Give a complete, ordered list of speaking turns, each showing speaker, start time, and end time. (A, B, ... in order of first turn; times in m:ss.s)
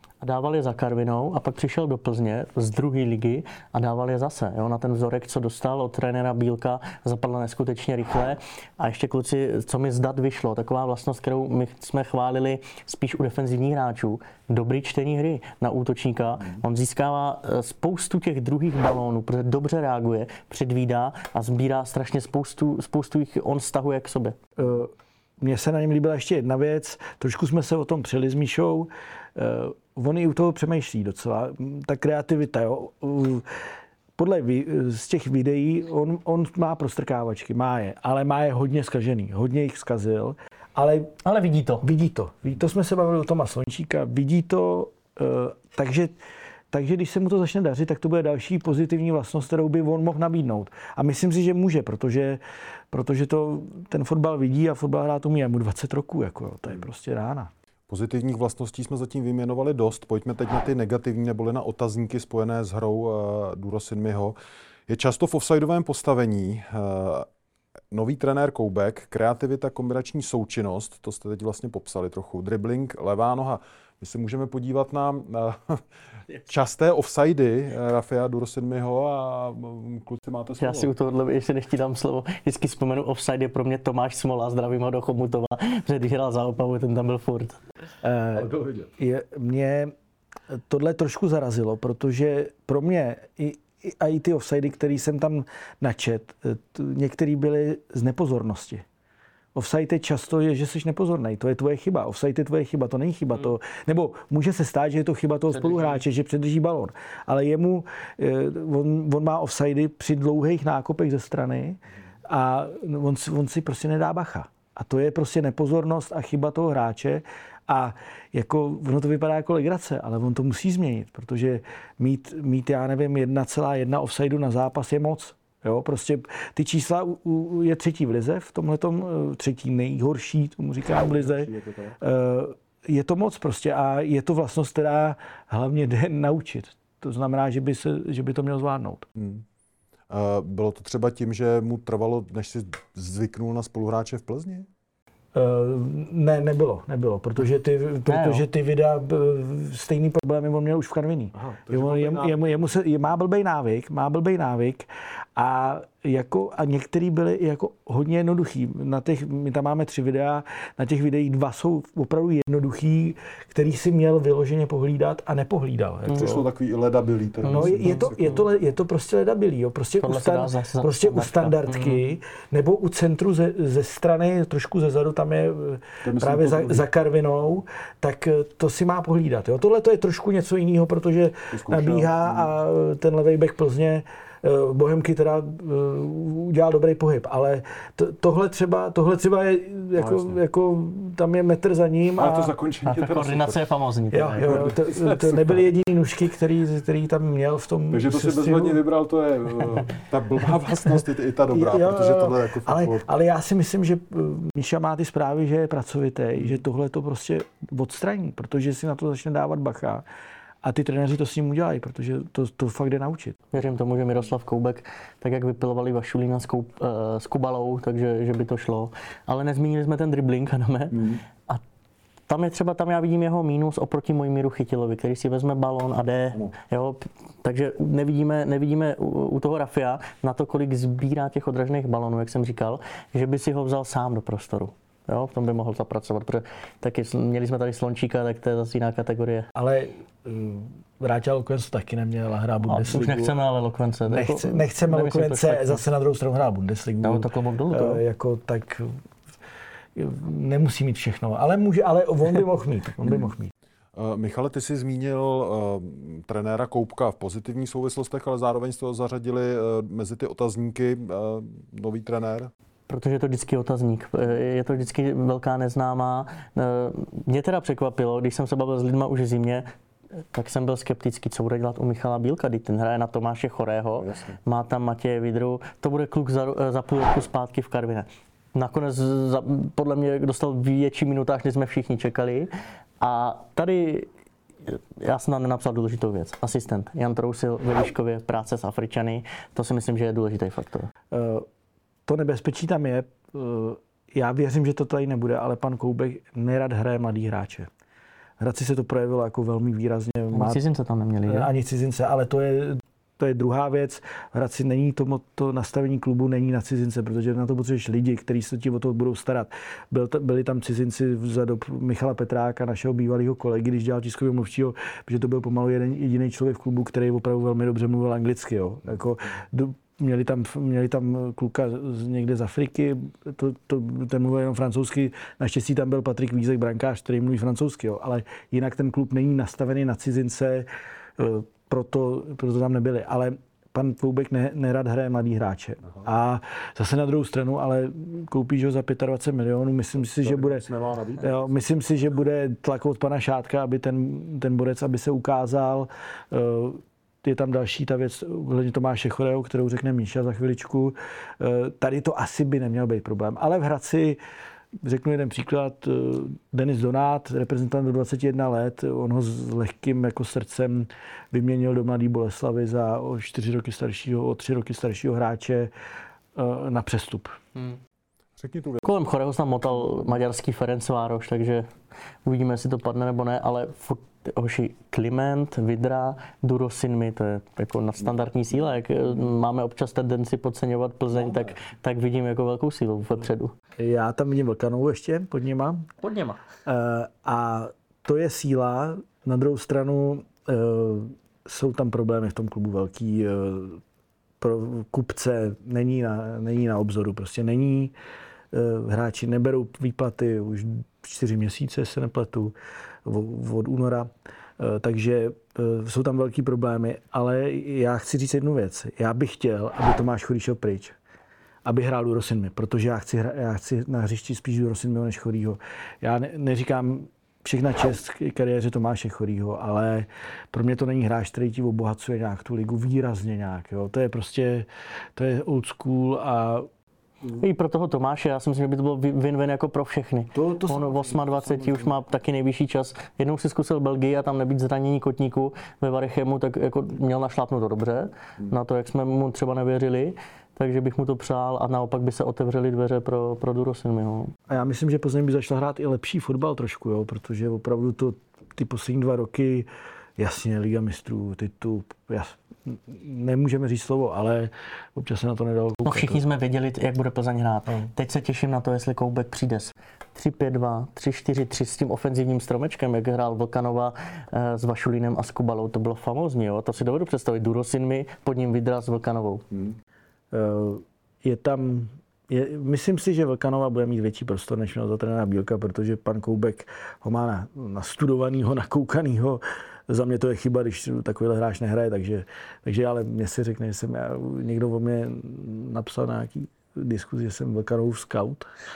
0:00.2-0:24.4 A
0:24.6-0:33.5 B
0:34.2-0:41.2 B
0:41.2-0:41.9 A
0:41.8-0:46.2 B
0:46.7-0:57.5 B
0:57.9-1:04.4 C
1:04.9-1:07.3 C
1:07.9-1:15.8 C
1:16.5-1:20.9 C
1:20.6-1:27.6 A
1:28.0-1:29.9 B
1:28.4-1:28.9 C
1:30.5-1:38.8 B
1:39.5-2:19.1 B
1:45.5-1:46.0 A
2:11.1-2:12.0 C
2:19.2-2:19.4 C
2:20.1-2:24.6 C
2:25.3-2:46.4 B
2:28.0-2:28.4 A
2:31.3-2:32.5 C
2:46.1-2:48.4 C
2:47.4-3:12.5 B
2:47.5-2:48.4 A
2:50.0-2:52.0 A
2:56.0-2:56.9 C
3:01.5-3:02.5 C
3:10.0-3:10.4 C
3:12.2-3:13.6 C
3:12.8-3:14.6 A
3:14.1-3:18.8 B
3:14.4-3:15.6 C
3:17.9-3:23.0 C
3:21.5-3:30.0 B
3:30.6-3:33.4 B
3:33.5-3:41.6 A
3:40.9-3:41.2 C
3:42.3-3:59.5 A
3:59.5-4:03.4 B
4:02.7-4:05.8 A
4:04.1-4:08.9 B
4:07.0-4:08.0 A
4:10.0-4:13.5 B
4:13.9-4:22.5 C
4:22.9-4:29.7 A
4:30.3-4:42.5 A
4:34.0-4:34.4 C
4:43.0-4:44.1 A
4:44.7-4:50.9 A
4:51.1-4:51.5 B
4:52.0-4:57.7 B
4:58.4-5:00.6 B
5:00.3-5:01.5 A
5:01.3-5:54.2 B
5:40.2-5:41.6 C
5:54.8-6:05.7 B
6:06.3-6:07.4 B
6:08.4-6:08.9 C
6:08.8-6:11.7 A
6:12.2-6:23.5 A
6:23.8-6:25.9 B
6:26.0-6:26.4 A
6:26.6-6:33.8 B
6:34.4-6:37.9 B
6:38.5-6:51.0 B
6:51.6-7:06.7 B
7:07.3-7:24.3 A
7:10.3-7:11.9 B
7:24.5-7:36.2 B
7:35.8-7:49.4 A
7:50.3-8:08.5 B